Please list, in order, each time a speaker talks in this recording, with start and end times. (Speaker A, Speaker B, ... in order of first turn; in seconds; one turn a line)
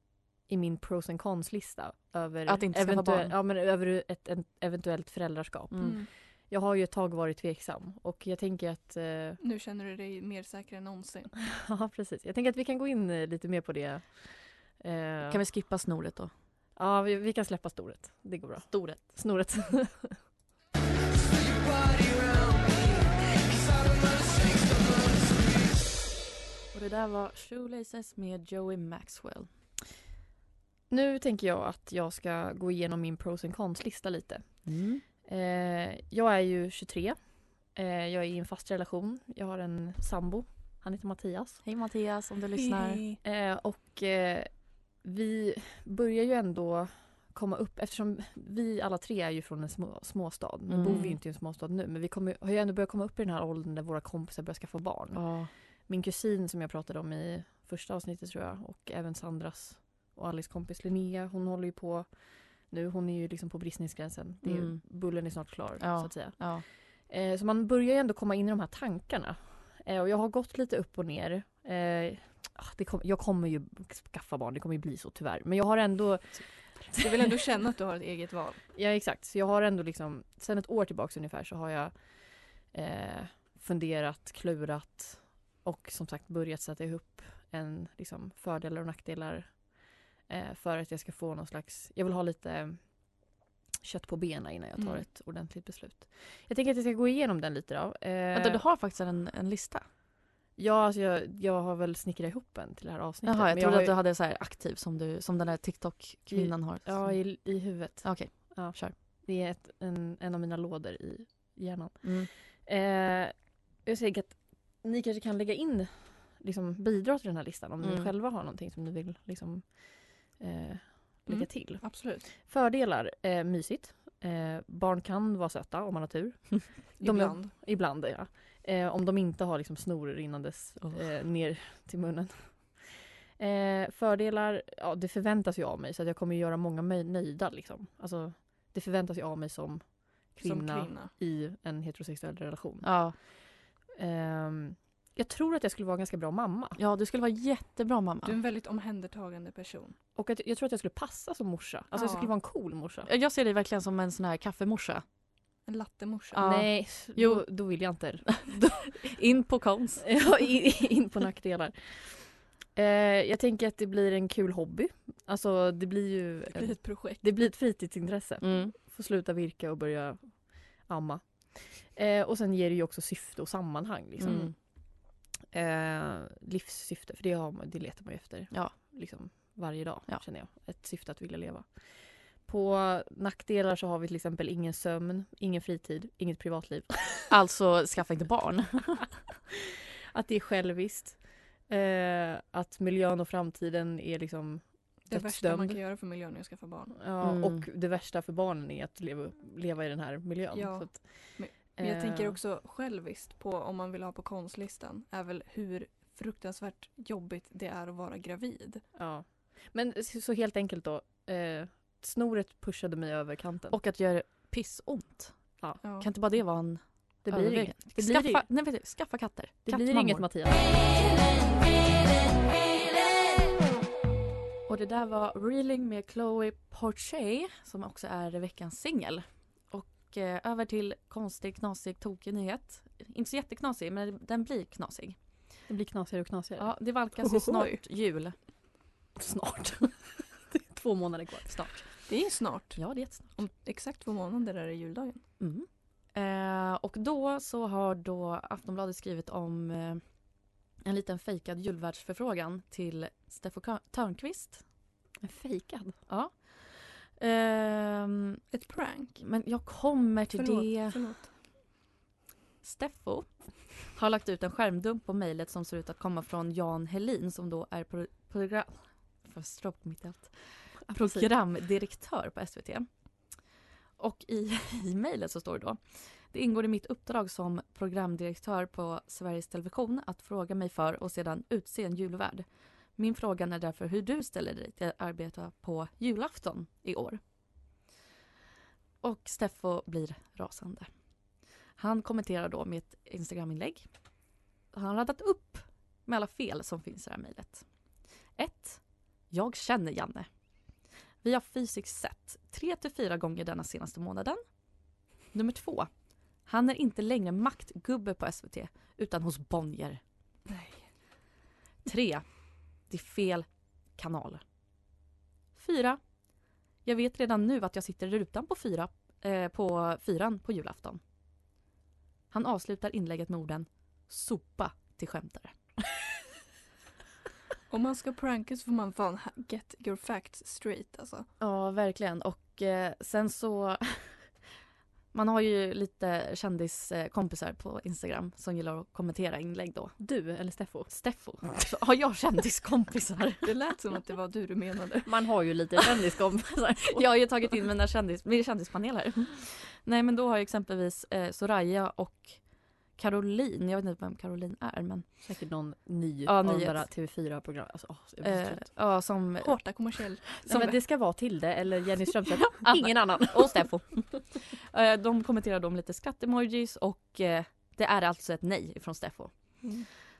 Speaker A: 0.5-9.4
Speaker B: 2.5-3.3
Speaker B: 5.7-6.0
Speaker C: 5.8-6.1
Speaker C: 9.4-11.3
Speaker A: 11.4-15.4
Speaker B: 15.3-16.3
Speaker A: 16.8-20.2
Speaker B: 18.7-19.0
Speaker B: 26.7-29.5
Speaker A: 30.9-34.7
Speaker B: 34.7-35.0
Speaker A: 35.2-41.6
Speaker B: 41.6-43.0
Speaker C: 42.6-43.2
Speaker A: 43.2-77.3
Speaker B: 50.7-51.1
Speaker C: 50.9-51.1
Speaker B: 55.1-55.5
Speaker B: 64.4-64.9
Speaker B: 65.8-66.6
Speaker C: 76.9-78.6
Speaker A: 78.8-89.7
Speaker A: 90.2-93.2
Speaker A: 93.8-98.6
Speaker C: 94.8-95.0
Speaker B: 98.3-99.9
Speaker A: 100.6-103.9
Speaker B: 103.2-108.9
Speaker A: 106.3-143.3
Speaker B: 112.0-112.3
Speaker B: 117.8-118.1
Speaker C: 121.3-122.2
Speaker C: 127.0-127.5
Speaker C: 140.4-141.1
Speaker B: 142.8-143.2
Speaker A: 143.9-146.8
Speaker B: 146.8-148.4
Speaker C: 148.2-149.9
Speaker A: 150.2-153.1
Speaker C: 151.9-152.3
Speaker B: 153.1-155.0
Speaker C: 155.7-156.4
Speaker B: 156.3-157.5
Speaker A: 156.4-158.9
Speaker B: 158.3-160.1
Speaker A: 160.0-174.6
Speaker C: 166.5-167.3
Speaker B: 168.4-168.8
Speaker B: 174.2-174.5
Speaker C: 174.2-174.5
Speaker A: 175.5-187.3
Speaker B: 187.3-189.2
Speaker A: 190.1-195.8
Speaker C: 195.1-197.0
Speaker A: 196.9-202.4
Speaker B: 197.2-197.6
Speaker C: 200.5-208.8
Speaker A: 208.9-213.8
Speaker B: 213.7-220.3
Speaker C: 215.8-216.1
Speaker A: 217.2-218.5
Speaker A: 219.7-220.8
Speaker B: 224.7-235.2
Speaker A: 235.7-236.8
Speaker B: 236.6-238.3
Speaker C: 237.4-237.7
Speaker A: 239.2-242.0
Speaker C: 242.1-245.2
Speaker B: 242.8-243.4
Speaker B: 245.4-250.0
Speaker B: 250.8-254.6
Speaker A: 255.2-256.0
Speaker B: 256.1-258.4
Speaker C: 258.5-259.2
Speaker B: 259.2-261.0
Speaker C: 260.3-261.3
Speaker B: 262.6-272.9
Speaker A: 270.9-271.3
Speaker B: 274.0-287.2
Speaker B: 289.0-290.9
Speaker B: 291.8-293.9
Speaker B: 294.7-297.6
Speaker B: 298.4-300.3
Speaker B: 301.2-304.4
Speaker B: 305.3-305.9
Speaker B: 306.4-310.0
Speaker C: 310.5-310.9
Speaker B: 311.9-312.3
Speaker B: 312.8-314.4
Speaker B: 315.5-316.0
Speaker B: 316.8-321.0
Speaker B: 322.3-325.6
Speaker C: 327.7-331.3
Speaker B: 331.4-334.4
Speaker B: 335.1-340.0
Speaker A: 340.0-340.9
Speaker B: 340.9-343.5
Speaker C: 343.4-345.1
Speaker A: 345.0-347.0
Speaker B: 346.9-355.1
Speaker A: 355.2-358.7
Speaker B: 356.2-356.9
Speaker B: 358.2-359.6
Speaker C: 359.4-360.8
Speaker B: 360.4-360.7
Speaker A: 360.5-364.0
Speaker B: 362.6-369.7
Speaker C: 369.6-369.9